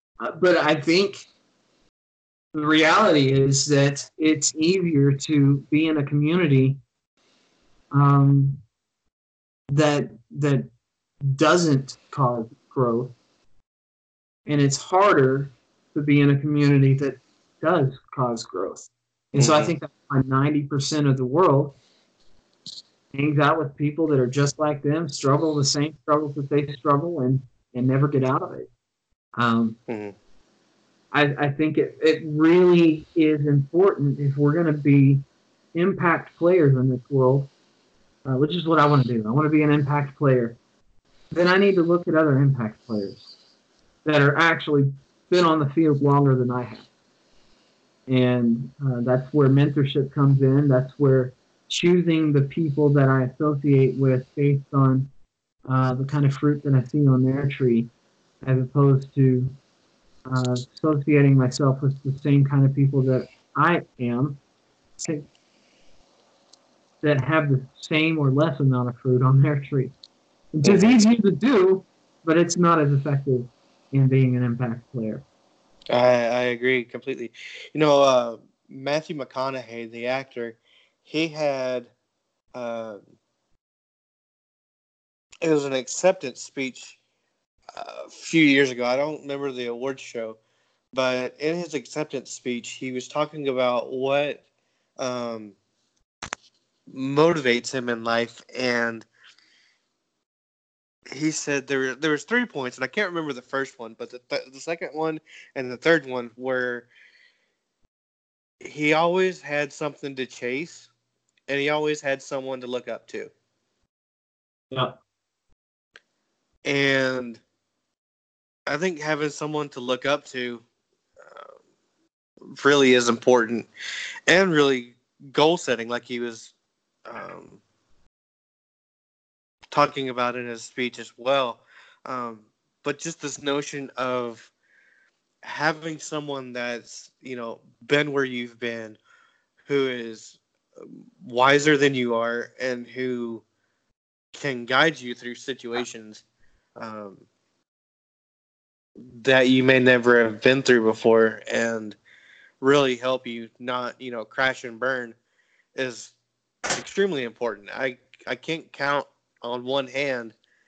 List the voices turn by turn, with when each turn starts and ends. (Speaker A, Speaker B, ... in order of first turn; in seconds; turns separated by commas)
Speaker A: 0.2-1.3, Speaker A: 2.5-6.8, Speaker A: 7.9-8.6, Speaker A: 9.7-10.7, Speaker A: 11.3-13.1, Speaker A: 14.4-21.8, Speaker B: 19.4-19.7, Speaker A: 23.1-28.7, Speaker A: 29.4-29.8, Speaker B: 29.9-30.1, Speaker A: 31.1-37.5, Speaker A: 38.2-40.6, Speaker A: 41.3-43.3, Speaker A: 44.0-46.9, Speaker A: 48.1-55.1, Speaker A: 55.6-57.9, Speaker A: 58.4-59.5, Speaker A: 60.3-64.4, Speaker A: 65.0-65.3, Speaker A: 67.0-69.9, Speaker A: 70.5-75.2, Speaker B: 70.6-71.0, Speaker B: 75.9-81.9, Speaker B: 82.5-83.0, Speaker B: 85.4-87.0, Speaker B: 87.7-90.4, Speaker B: 90.9-94.4, Speaker B: 95.0-95.6, Speaker B: 96.9-99.1, Speaker B: 101.1-106.9, Speaker B: 108.6-110.9, Speaker B: 111.5-113.3, Speaker A: 114.7-115.0, Speaker B: 116.6-117.4, Speaker B: 118.7-120.6, Speaker B: 121.2-121.5, Speaker B: 122.5-123.7, Speaker B: 124.3-126.5, Speaker B: 127.1-127.6, Speaker B: 129.7-134.5, Speaker B: 135.4-139.0, Speaker B: 139.6-140.4, Speaker B: 141.2-143.4, Speaker B: 144.3-146.2, Speaker B: 146.8-147.2, Speaker B: 149.2-152.0, Speaker B: 152.6-155.2, Speaker B: 155.8-156.1, Speaker B: 156.7-160.3